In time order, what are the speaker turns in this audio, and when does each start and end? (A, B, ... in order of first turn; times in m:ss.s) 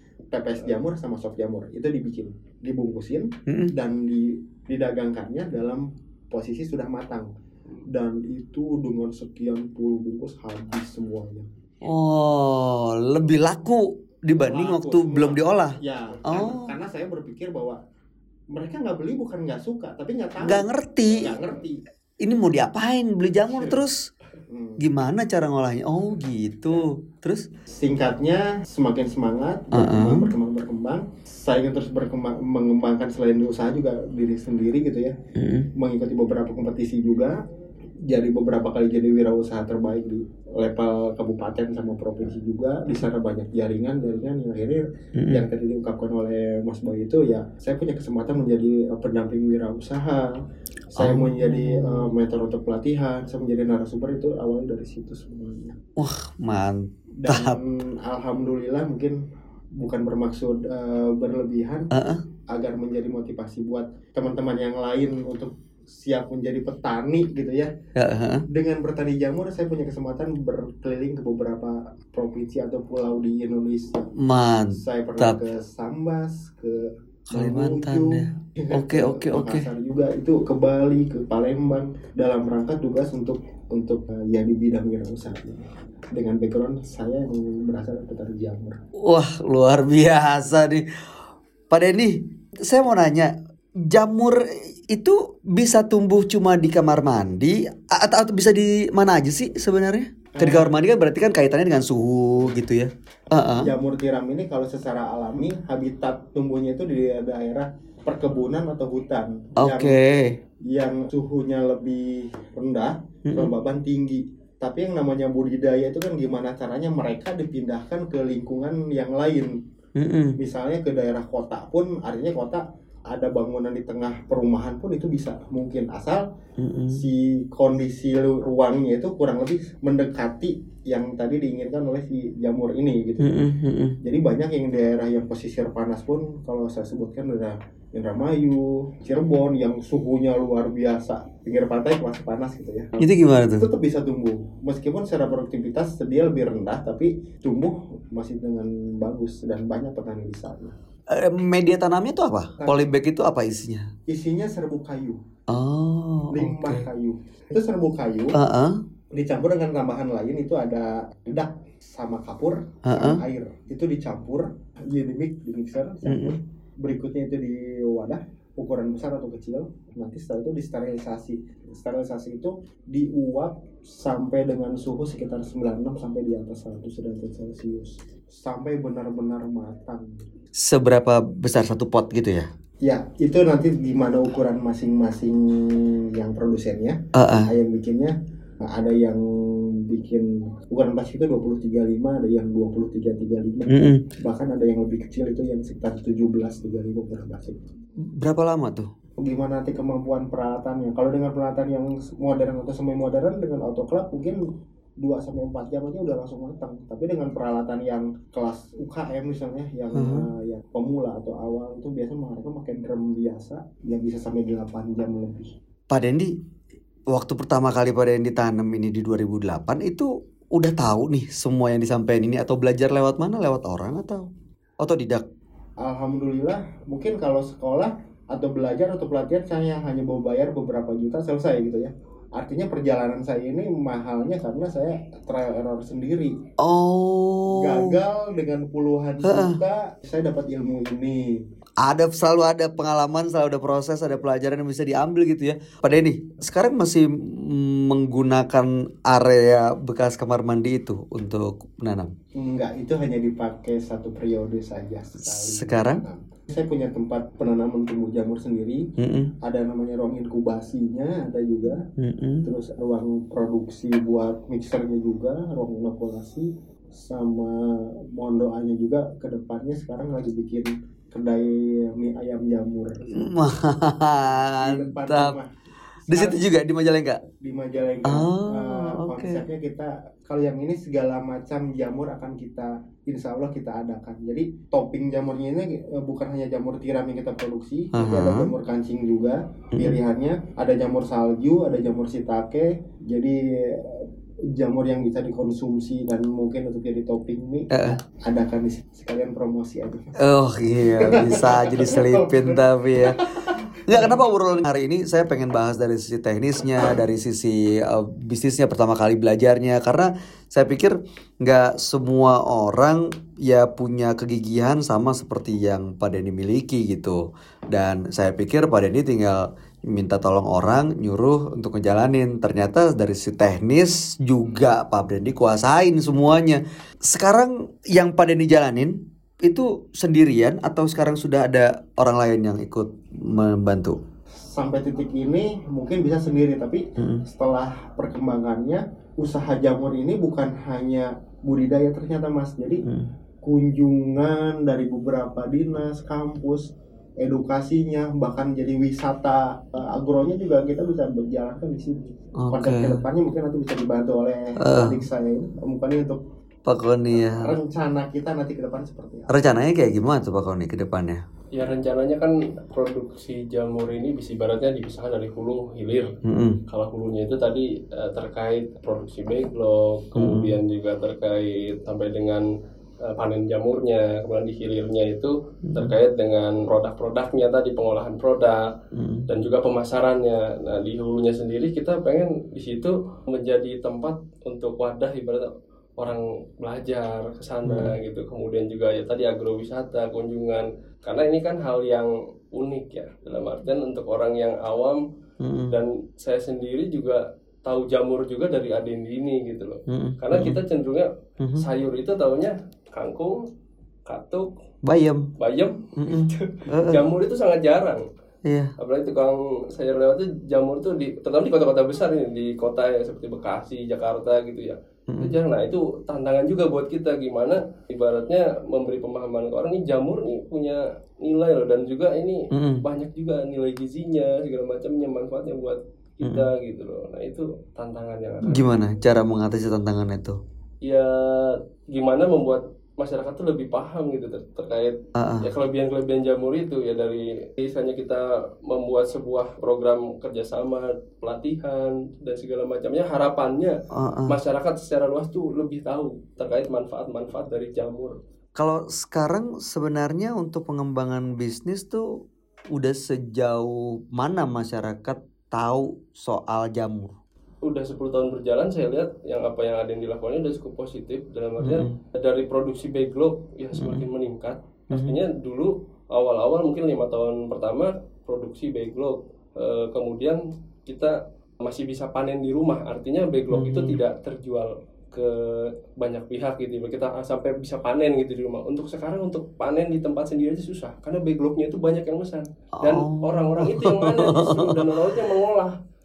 0:00.3-0:07.3 A
0:07.9-0:11.5 A
0:11.8-0:16.7 B
0:14.4-0:17.8 A
0:18.5-0:21.8 A
0:20.4-0:21.3 B
0:22.2-0:24.1 B
0:23.5-0:23.8 A
0:24.5-0:24.8 A
0:24.8-0:27.5 B
0:27.7-0:35.1 A
0:29.7-0:30.3 B
0:35.4-0:35.7 B
0:35.8-0:37.4 A
0:38.1-0:50.3 A
0:45.2-0:45.4 B
0:50.9-0:55.8 A
0:51.0-0:52.1 B
0:56.0-0:57.6 B
0:57.2-0:59.2 A
0:59.8-1:01.9 A
1:01.9-1:02.2 B
1:02.5-1:07.7 A
1:08.0-1:08.4 B
1:08.5-1:14.0 A
1:14.2-1:15.4 B
1:14.7-1:28.7 A
1:17.3-1:19.6 B
1:29.0-1:30.8 B
1:31.7-1:33.3 B
1:33.8-1:43.7 B
1:40.3-1:40.7 A
1:43.6-1:50.0 A
1:49.6-1:50.4 B
1:50.7-1:59.5 A
1:53.2-1:53.5 B
2:00.0-2:00.4 B
2:00.4-2:06.2 A
2:06.6-2:07.0 B
2:06.9-2:13.4 A
2:13.2-2:14.0 B
2:14.0-2:23.0 A
2:23.0-2:23.6 B
2:23.6-2:30.7 A
2:31.1-2:33.9 B
2:32.6-2:32.9 A
2:34.1-2:35.2 A
2:35.5-2:36.8 B
2:36.3-2:38.4 A
2:38.3-2:38.8 B
2:39.1-3:00.1 A
2:42.8-2:43.2 B
2:46.0-2:46.4 B
3:00.6-3:02.5 B
3:02.8-3:08.1 A
3:07.1-3:07.5 B
3:08.7-3:09.2 A
3:09.9-3:17.6 A
3:13.7-3:14.0 B
3:18.2-3:18.9 B
3:19.2-3:24.4 A
3:25.0-3:35.5 A
3:29.9-3:30.3 B
3:35.9-3:36.3 B
3:37.1-3:45.2 B
3:45.8-3:56.3 A
3:56.6-3:58.0 B
3:57.5-4:01.2 A
3:59.2-3:59.6 B
4:01.8-4:12.1 B
4:12.4-4:18.8 A
4:15.2-4:16.0 B
4:19.0-4:19.3 B
4:19.4-4:21.8 A
4:22.0-4:22.4 B
4:22.4-4:33.1 A
4:33.1-4:35.4 B
4:34.4-4:35.5 A
4:36.0-4:36.4 A
4:36.1-4:37.2 B
4:37.4-5:00.2 A
4:38.0-4:39.4 B
4:47.9-4:48.5 B
4:49.7-4:50.0 B
4:57.7-4:58.0 B
5:00.2-5:34.0 B
5:00.9-5:04.2 A
5:34.4-5:42.8 A
5:37.0-5:37.2 B
5:43.4-5:56.2 A
5:52.4-5:53.0 B
5:54.6-5:55.0 B
5:56.6-5:57.5 B
5:57.2-5:59.4 A
5:59.3-6:01.2 B
6:01.5-6:06.1 C
6:06.2-6:06.6 B
6:06.7-6:12.4 C
6:10.1-6:10.6 B
6:13.0-6:18.6 C
6:15.7-6:15.9 B
6:18.9-6:19.3 B
6:19.3-6:35.0 C
6:27.6-6:28.0 B
6:35.4-6:35.8 B
6:35.7-6:43.4 C
6:39.9-6:40.6 B
6:41.4-6:41.6 B
6:44.0-6:44.5 C
6:44.8-6:45.2 B
6:45.4-6:48.0 C
6:46.0-6:47.0 B
6:48.4-6:48.7 B
6:48.8-7:08.7 C
6:55.1-6:55.3 B
7:02.5-7:02.8 B
7:08.4-7:10.4 B
7:10.8-7:23.7 C
7:15.2-7:15.5 B
7:23.9-7:24.4 B
7:24.3-7:28.2 C
7:28.6-7:32.0 B
7:32.7-7:37.1 B
7:37.6-8:05.7 C
7:41.6-7:42.0 B
7:43.7-7:44.0 B
7:44.9-7:45.2 B
7:53.5-7:54.0 B
8:02.8-8:04.8 B